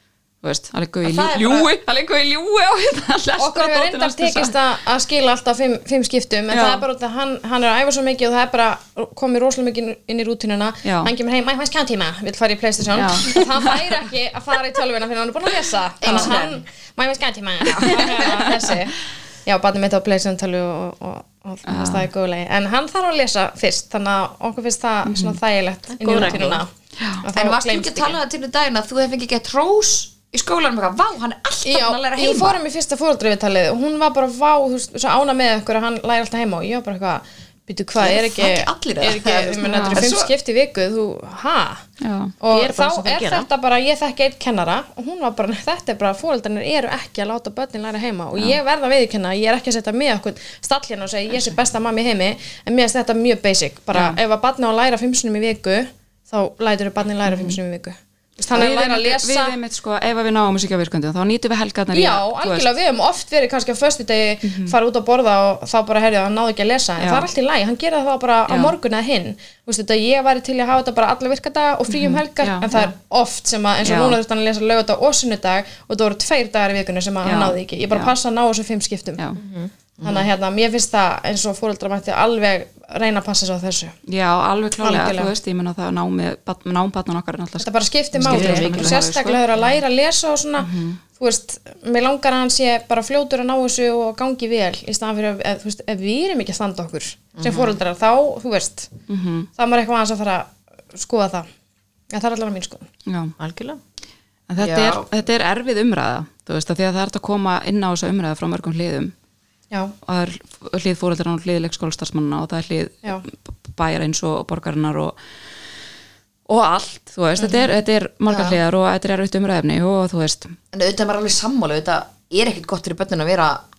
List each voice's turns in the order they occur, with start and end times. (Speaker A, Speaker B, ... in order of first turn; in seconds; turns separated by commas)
Speaker A: 0.4-4.5, Speaker B: 1.0-1.7, Speaker C: 3.4-26.7, Speaker A: 6.5-6.8, Speaker A: 10.8-11.1, Speaker A: 12.9-13.9, Speaker B: 16.0-16.6, Speaker B: 17.7-18.3, Speaker A: 21.7-22.1, Speaker A: 25.0-25.4, Speaker D: 25.9-26.6, Speaker C: 27.2-28.2, Speaker B: 27.3-32.6, Speaker C: 31.6-41.8, Speaker B: 38.0-40.3, Speaker A: 39.6-40.0, Speaker A: 42.0-42.3, Speaker C: 42.4-59.5, Speaker D: 42.5-43.5, Speaker A: 53.9-54.2, Speaker A: 57.2-57.6, Speaker A: 58.5-62.7, Speaker C: 61.9-79.2, Speaker A: 64.4-64.7, Speaker A: 67.0-67.3, Speaker A: 68.5-68.7, Speaker A: 71.9-72.9, Speaker A: 73.8-74.2, Speaker A: 77.2-78.1, Speaker D: 79.4-79.7, Speaker B: 80.0-80.3, Speaker C: 80.0-84.0, Speaker A: 84.1-89.4, Speaker C: 84.8-85.3, Speaker C: 87.6-98.9, Speaker D: 88.2-89.0, Speaker A: 90.6-91.0, Speaker B: 97.4-97.8, Speaker A: 99.1-99.5, Speaker C: 99.5-101.5, Speaker C: 102.1-102.9, Speaker A: 103.1-103.3, Speaker D: 103.4-103.8, Speaker A: 104.5-109.1, Speaker B: 104.6-105.0, Speaker A: 110.0-115.2, Speaker A: 116.5-120.5, Speaker C: 117.4-117.7, Speaker B: 120.7-123.6